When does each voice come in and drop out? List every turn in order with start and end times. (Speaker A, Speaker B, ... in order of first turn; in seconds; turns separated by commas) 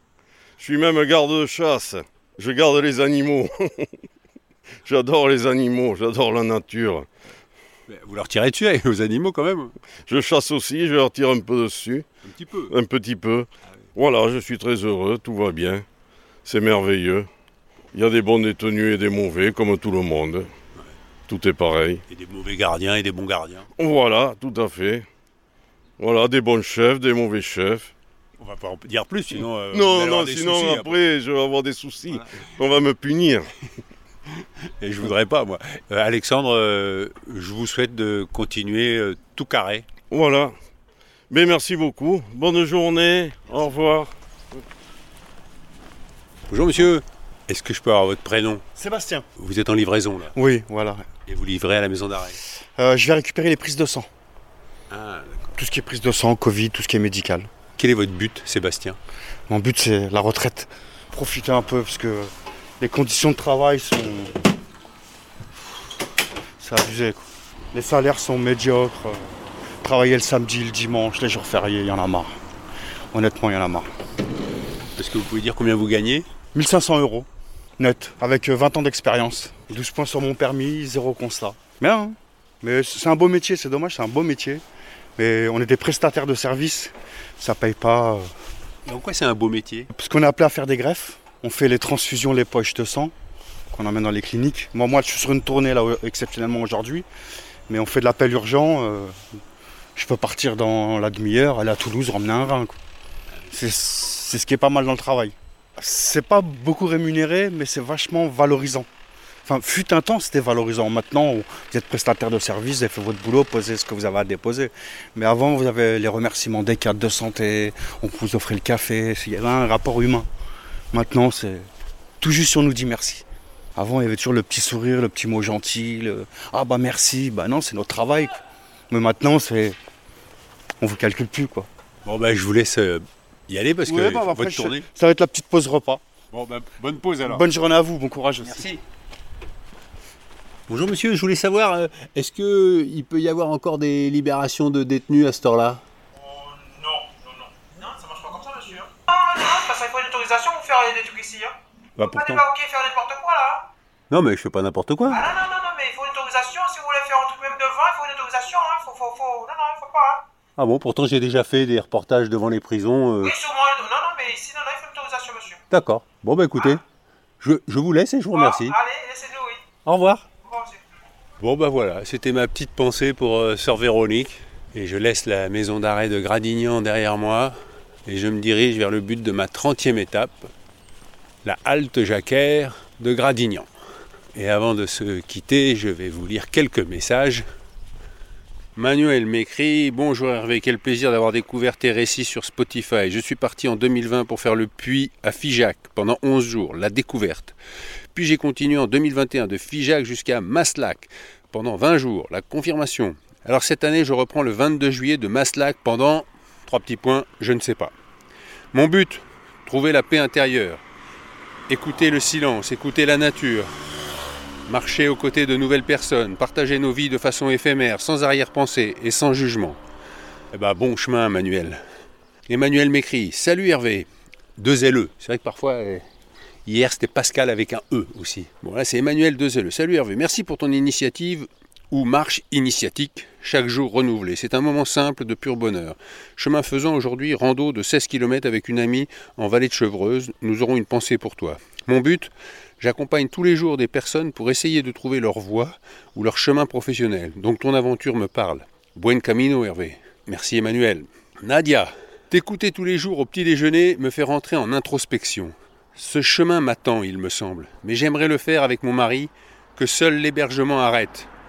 Speaker A: 0.6-3.9, Speaker A: 4.8-7.1, Speaker B: 7.9-9.7, Speaker A: 10.1-12.1, Speaker B: 12.2-12.7, Speaker A: 12.7-15.8, Speaker A: 16.4-17.3, Speaker A: 17.9-20.5, Speaker A: 21.3-22.0, Speaker B: 22.1-23.6, Speaker A: 23.8-25.1, Speaker A: 26.0-27.9, Speaker B: 28.4-31.0, Speaker A: 29.7-33.5, Speaker B: 34.8-39.9, Speaker A: 40.1-40.5, Speaker A: 41.3-44.1, Speaker B: 46.5-48.6, Speaker C: 48.8-49.2, Speaker B: 49.4-50.3, Speaker C: 50.3-51.0, Speaker B: 51.3-52.4, Speaker C: 52.8-54.1, Speaker B: 54.9-55.5, Speaker C: 55.5-57.5, Speaker B: 57.8-59.0, Speaker C: 59.5-64.3, Speaker C: 66.6-72.3, Speaker C: 73.1-73.9, Speaker B: 75.0-76.2, Speaker C: 76.5-77.3, Speaker C: 77.8-84.6, Speaker C: 85.2-88.3, Speaker B: 88.8-89.9, Speaker C: 89.9-93.1, Speaker C: 93.7-97.0, Speaker C: 97.7-99.1, Speaker C: 100.0-102.8, Speaker C: 103.5-108.9, Speaker C: 109.5-120.3, Speaker C: 120.9-121.7, Speaker C: 122.2-123.2, Speaker C: 123.8-129.8, Speaker C: 130.8-131.7, Speaker B: 132.0-134.8, Speaker C: 133.8-136.0, Speaker B: 136.3-137.4, Speaker C: 137.2-138.6, Speaker B: 138.4-138.8, Speaker B: 140.7-145.8, Speaker D: 146.2-153.6, Speaker B: 152.0-152.4, Speaker B: 154.1-155.2, Speaker D: 155.1-160.2, Speaker B: 160.6-163.3, Speaker D: 163.2-165.6, Speaker B: 165.7-166.8, Speaker B: 167.4-168.8, Speaker D: 168.3-169.6, Speaker B: 169.8-170.2, Speaker D: 170.4-170.8, Speaker B: 171.4-177.5, Speaker B: 178.1-180.5, Speaker B: 181.4-183.7, Speaker B: 184.3-187.4, Speaker B: 188.8-197.6, Speaker B: 198.1-207.9, Speaker B: 208.7-210.8, Speaker B: 211.7-213.7, Speaker B: 214.7-219.8, Speaker B: 220.5-221.8, Speaker B: 222.5-226.0, Speaker B: 226.7-261.3